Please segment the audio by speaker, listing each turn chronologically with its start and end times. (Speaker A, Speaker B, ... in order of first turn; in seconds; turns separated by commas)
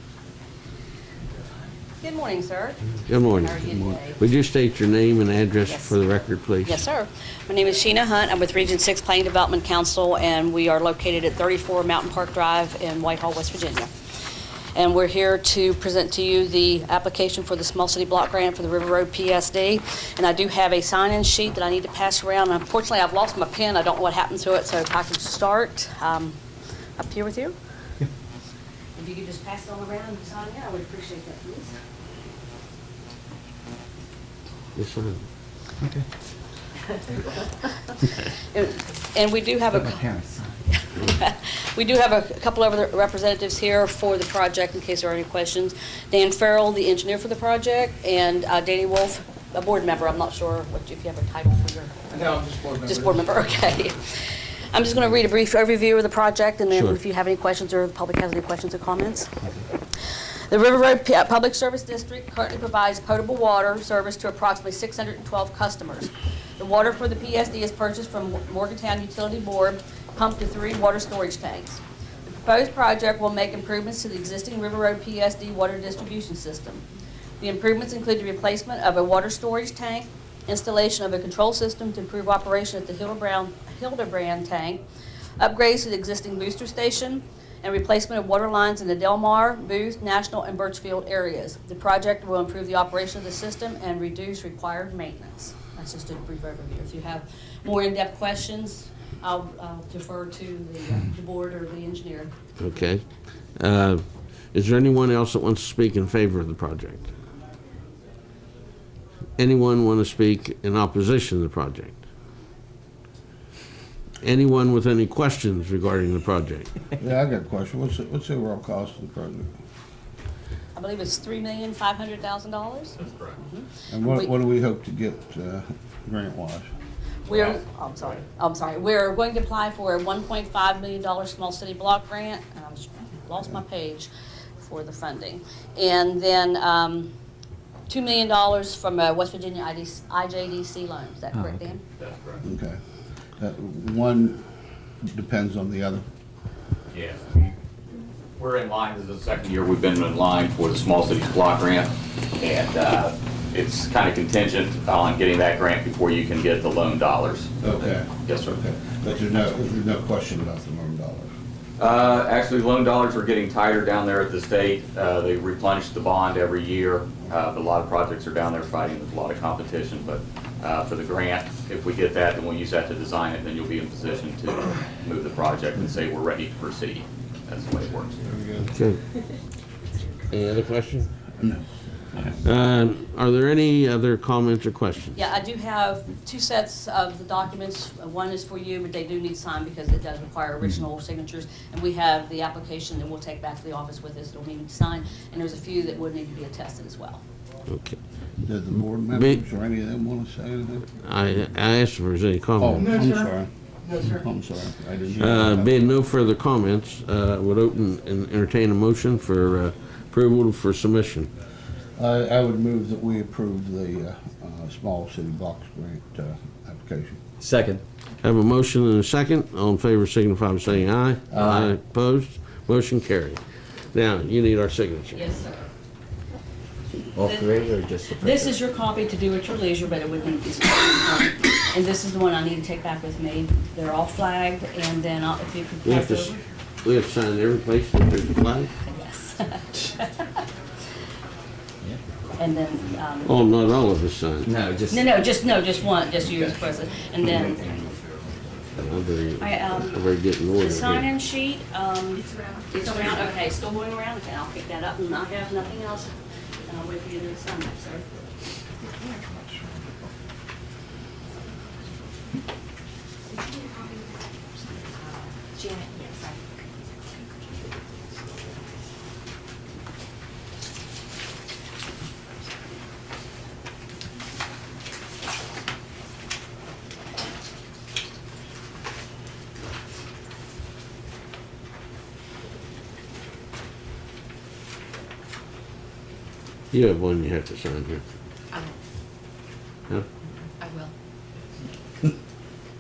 Speaker A: 2.0-4.2, Speaker B: 3.0-6.8, Speaker A: 5.6-6.0, Speaker A: 6.6-13.9, Speaker A: 14.8-26.4, Speaker A: 27.0-27.6, Speaker A: 29.0-31.8, Speaker B: 34.8-35.2, Speaker A: 38.5-40.1, Speaker C: 39.8-40.5, Speaker A: 40.8-59.3, Speaker B: 56.7-57.0, Speaker A: 60.5-71.8, Speaker A: 72.4-76.8, Speaker A: 77.4-84.8, Speaker A: 85.4-102.3, Speaker B: 102.6-103.0, Speaker B: 103.5-107.1, Speaker B: 109.4-112.0, Speaker B: 114.2-116.7, Speaker D: 117.0-119.5, Speaker A: 120.7-124.3, Speaker E: 123.0-123.4, Speaker D: 123.9-126.7, Speaker A: 127.2-134.1, Speaker E: 127.3-128.2, Speaker A: 134.6-137.1, Speaker A: 137.9-141.8, Speaker C: 141.3-141.6, Speaker E: 142.0-142.4, Speaker D: 142.4-142.8, Speaker D: 143.4-144.4, Speaker D: 145.0-146.0, Speaker E: 146.9-147.5, Speaker E: 148.4-157.5, Speaker D: 157.6-161.3, Speaker E: 158.2-158.5, Speaker E: 161.8-178.2, Speaker D: 178.2-178.8, Speaker B: 178.7-179.0, Speaker B: 180.3-181.1, Speaker B: 182.4-185.2, Speaker A: 185.2-197.2, Speaker B: 197.7-198.0, Speaker D: 198.4-200.9, Speaker B: 199.1-199.4, Speaker B: 201.0-202.9, Speaker D: 202.6-203.5, Speaker D: 204.0-205.8, Speaker B: 205.2-211.3, Speaker D: 212.0-217.2, Speaker C: 217.4-217.8, Speaker B: 218.2-223.4, Speaker C: 221.3-221.8, Speaker B: 223.9-225.3, Speaker A: 225.1-225.6, Speaker C: 227.2-228.6, Speaker A: 227.2-227.5, Speaker A: 228.2-236.4, Speaker B: 235.8-236.3, Speaker B: 236.8-238.7, Speaker A: 238.8-240.3, Speaker A: 242.4-243.4, Speaker B: 243.2-244.5, Speaker C: 244.4-245.1, Speaker A: 244.9-247.9, Speaker B: 248.8-251.1, Speaker A: 249.4-256.1, Speaker F: 252.3-252.7, Speaker A: 256.7-258.1, Speaker F: 258.8-259.3, Speaker F: 263.3-266.5, Speaker F: 267.0-268.4, Speaker B: 286.7-288.0, Speaker F: 288.5-288.8, Speaker F: 290.6-290.9